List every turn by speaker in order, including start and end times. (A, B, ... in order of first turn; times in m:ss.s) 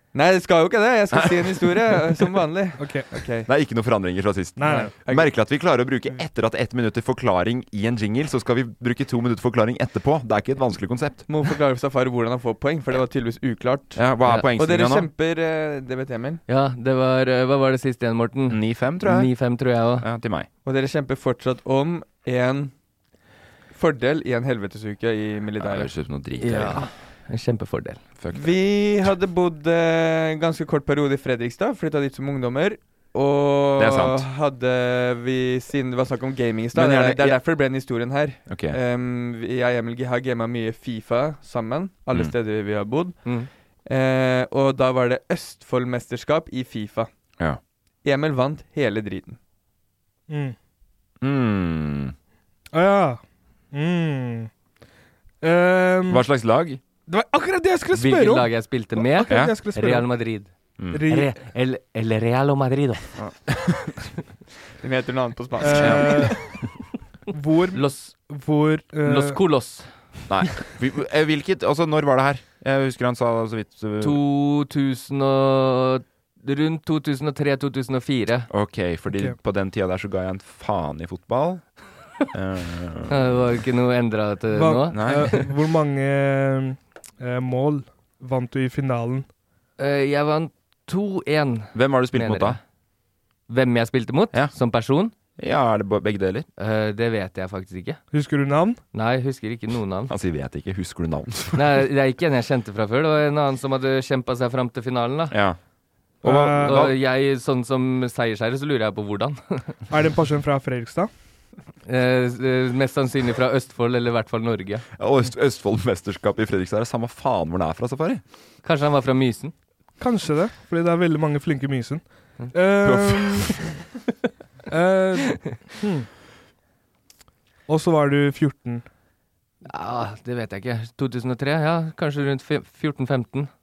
0:00.1-0:03.5 A
0:01.1-0:02.3 B
0:02.8-0:03.1 C
0:03.5-0:11.3 B
0:04.6-0:04.9 C
0:04.6-0:05.4 A
0:11.3-0:16.4 A
0:14.0-0:15.1 B
0:16.5-0:20.1 D
0:18.5-0:19.3 B
0:20.0-0:20.5 B
0:20.6-0:22.7 A
0:23.7-0:26.0 A
0:25.6-0:26.9 B
0:26.4-0:28.0 D
0:28.2-0:28.6 B
0:28.3-0:43.2 A
0:33.8-0:34.2 B
0:36.7-0:37.4 B
0:38.5-0:38.8 B
0:43.9-0:47.1 A
0:48.0-0:49.4 A
0:50.3-0:50.6 C
0:51.2-0:52.2 B
0:52.7-0:53.2 C
0:53.7-0:54.5 C
0:55.4-0:56.2 C
0:56.1-0:56.8 B
0:57.1-1:00.1 C
0:57.9-1:03.0 D
0:59.3-0:59.5 B
1:00.9-1:01.3 C
1:03.2-1:04.0 B
1:04.8-1:06.3 A
1:05.6-1:06.5 C
1:05.7-1:06.4 B
1:07.3-1:09.4 C
1:07.8-1:08.1 D
1:09.0-1:09.9 D
1:10.3-1:14.2 B
1:14.0-1:18.5 D
1:18.5-1:23.4 B
1:23.1-1:25.5 D
1:24.5-1:29.3 C
1:24.9-1:25.3 B
1:29.8-1:32.6 D
1:31.7-1:32.6 B
1:33.5-1:35.1 D
1:35.4-1:36.5 B
1:36.6-1:38.0 D
1:38.1-1:38.8 C
1:38.9-1:40.1 D
1:40.1-1:41.8 B
1:41.5-1:45.4 D
1:45.3-1:45.6 B
1:46.2-1:46.8 C
1:46.2-1:46.9 B
1:46.3-1:49.7 D
1:49.9-1:51.1 C
1:51.9-1:54.8 D
1:55.0-1:58.2 B
1:58.6-1:59.5 D
2:00.0-2:03.6 C
2:02.8-2:03.6 B
2:04.7-2:06.1 C
2:07.7-2:08.8 C
2:09.6-2:13.5 D